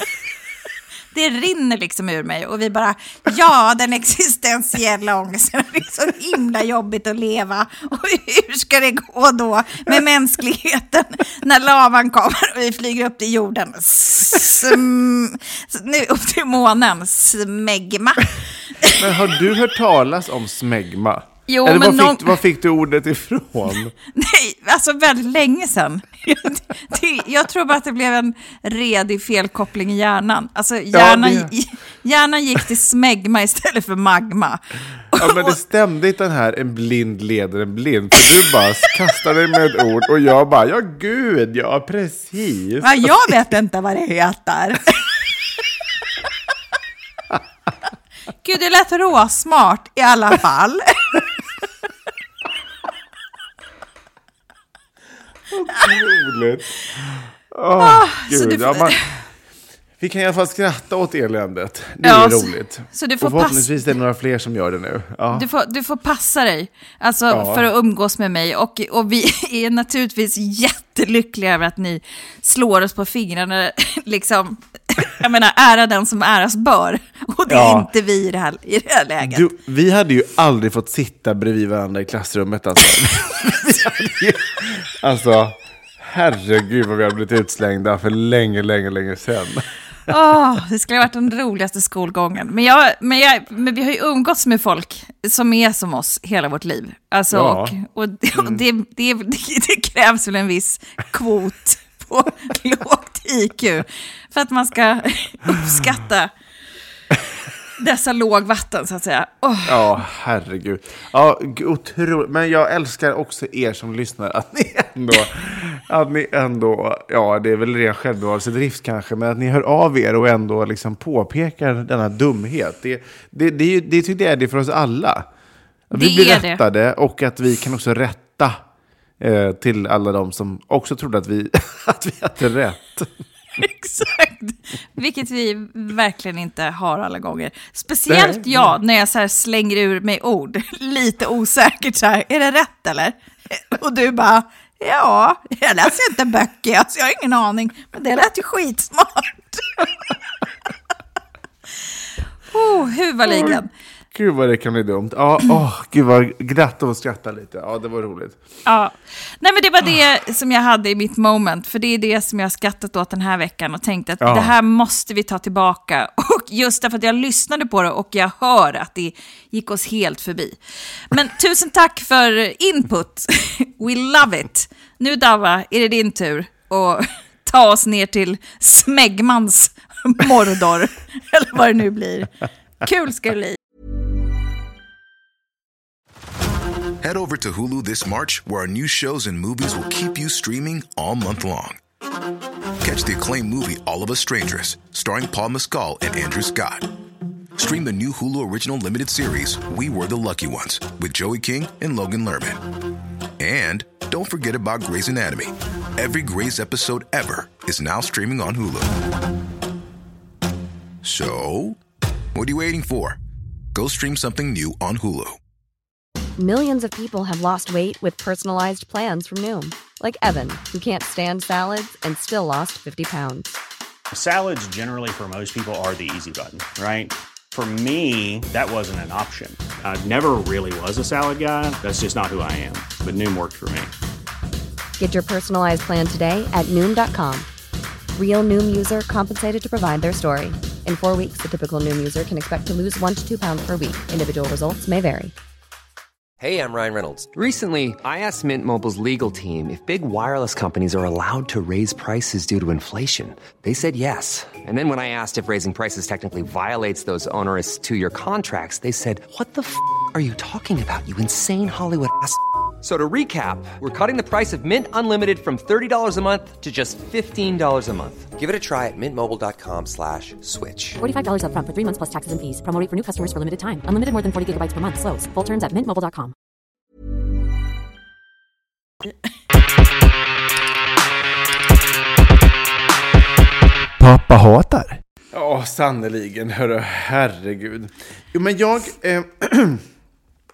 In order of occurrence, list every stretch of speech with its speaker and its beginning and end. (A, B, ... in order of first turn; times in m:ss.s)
0:01.1-0:19.2 A
0:18.8-0:23.9 B
0:21.5-0:22.4 A
0:24.1-0:35.6 A
0:30.9-0:31.5 B
0:35.1-0:43.3 B
0:42.8-0:45.2 A
0:48.4-0:51.2 A
0:55.5-0:59.0 B
0:57.8-0:59.2 A
1:00.0-1:05.4 B
1:02.0-1:03.7 A
1:05.3-1:19.5 A
1:07.3-1:07.7 B
1:17.5-1:17.9 B
1:19.2-1:29.6 B
1:30.1-1:46.3 A
1:37.3-1:37.8 B
1:38.3-1:38.6 B
1:47.8-1:50.0 A
1:49.6-2:05.2 B
2:05.9-2:08.6 B
2:05.9-2:06.6 A
2:09.2-2:13.1 B
2:13.6-2:29.9 A
2:18.1-2:18.7 B
2:32.5-2:33.7 A
2:33.2-2:33.6 B
2:34.1-2:38.4 B
2:38.6-2:50.6 A
2:44.2-2:44.5 B
2:51.1-3:02.3 A
3:02.8-3:03.6 A
3:07.0-3:11.8 C
3:12.8-3:16.9 C
3:17.6-3:22.6 C
3:23.4-3:29.0 C
3:31.0-3:31.8 C
3:32.3-3:33.2 C
3:33.7-3:35.4 C
3:36.4-3:43.5 D
3:44.1-3:53.9 E
3:55.0-3:57.5 D
3:58.1-4:05.3 D
4:06.4-4:31.0 F
4:31.0-4:36.3 G
4:44.0-4:49.8 B